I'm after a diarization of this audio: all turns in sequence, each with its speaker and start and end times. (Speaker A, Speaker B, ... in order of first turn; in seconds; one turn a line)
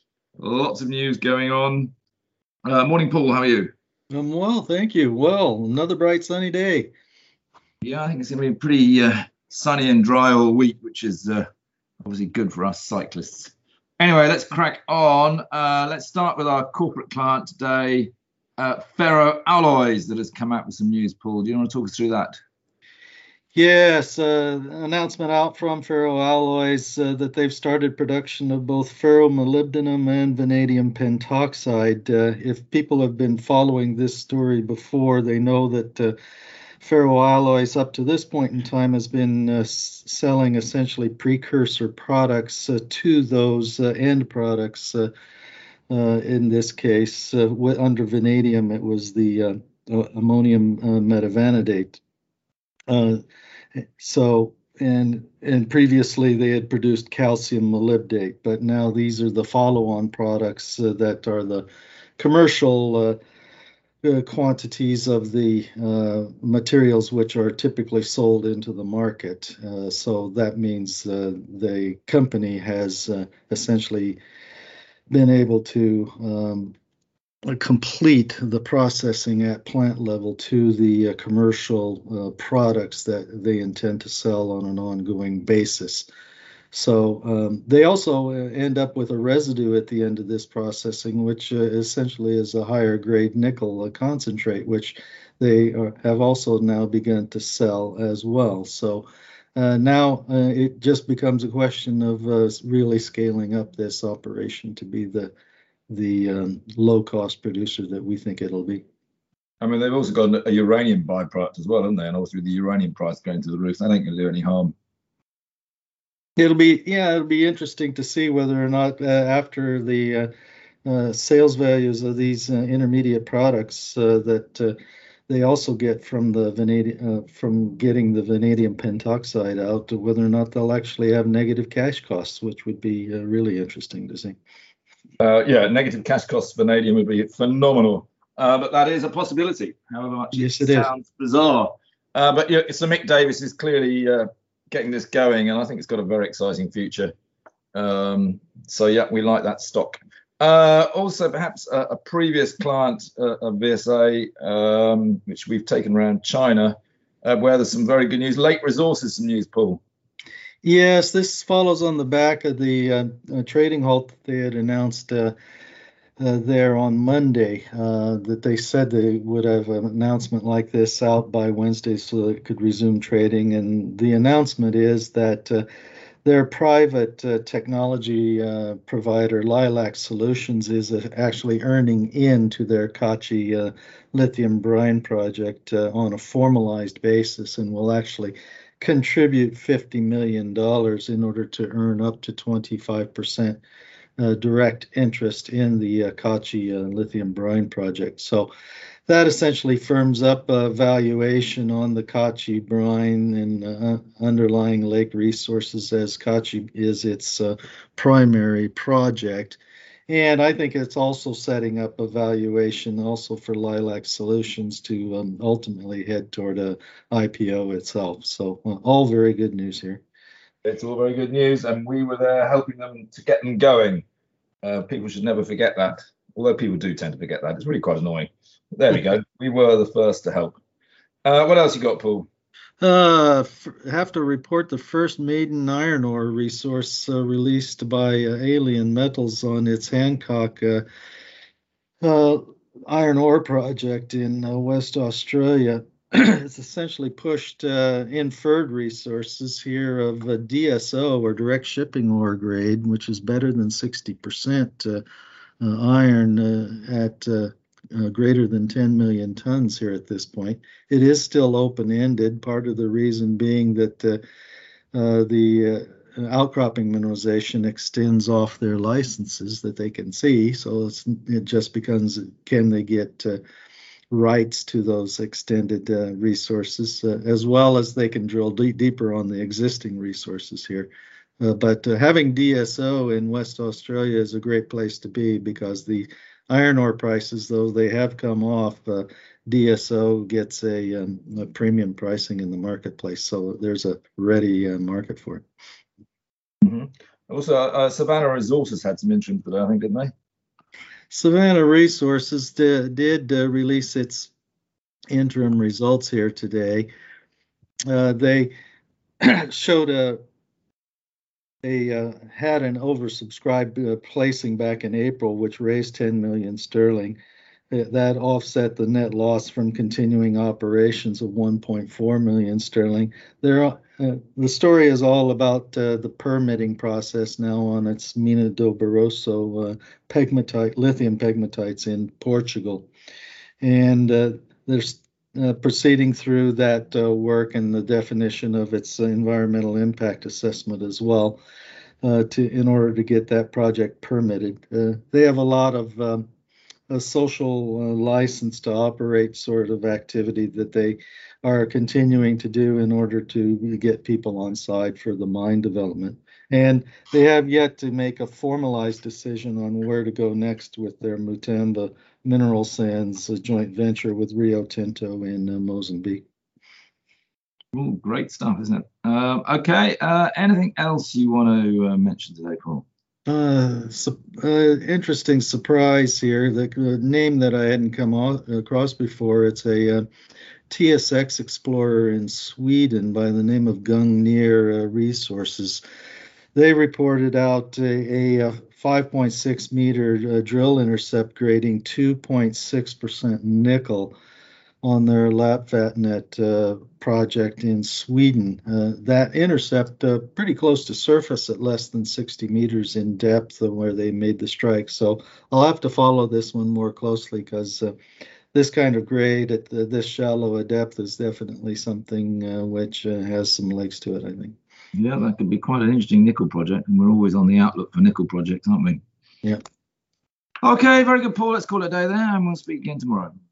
Speaker A: 0.4-1.9
Speaker A: 2.6-3.7
Speaker B: 4.1-6.9
Speaker A: 7.8-11.4
Speaker A: 12.0-22.4
Speaker B: 23.5-36.1
Speaker B: 36.8-45.1
Speaker B: 45.9-52.0
Speaker B: 52.9-53.2
Speaker B: 53.8-61.6
Speaker B: 62.2-63.2
Speaker B: 64.0-74.2
Speaker B: 75.1-76.7
Speaker B: 77.5-86.1
Speaker B: 86.7-105.3
Speaker B: 105.9-108.8
Speaker A: 109.6-114.7
Speaker B: 116.4-120.3
Speaker B: 120.8-124.8
Speaker B: 125.3-134.4
Speaker A: 135.2-147.1
Speaker B: 140.3-140.9
Speaker A: 147.7-159.8
Speaker B: 160.6-165.3
Speaker B: 166.2-175.7
Speaker B: 176.2-193.6
Speaker B: 194.2-198.5
Speaker B: 199.1-220.0
Speaker A: 220.6-224.0
Speaker A: 224.6-230.6
Speaker A: 231.2-232.3
Speaker B: 232.8-240.8
Speaker B: 242.0-255.0
Speaker B: 255.6-264.2
Speaker B: 264.9-273.4
Speaker B: 274.1-295.4
Speaker A: 296.6-300.1
Speaker B: 301.1-304.3
Speaker B: 305.1-306.9
Speaker B: 307.9-308.5
Speaker B: 309.2-310.2
Speaker B: 311.6-317.2
Speaker B: 317.7-332.9
Speaker B: 333.6-341.4
Speaker B: 342.0-346.2
Speaker B: 346.9-366.2
Speaker A: 367.7-372.8
Speaker B: 373.3-380.1
Speaker B: 380.7-385.8
Speaker B: 386.5-394.1
Speaker B: 394.8-407.9
Speaker B: 408.5-414.5
Speaker A: 414.9-419.0
Speaker A: 420.6-423.3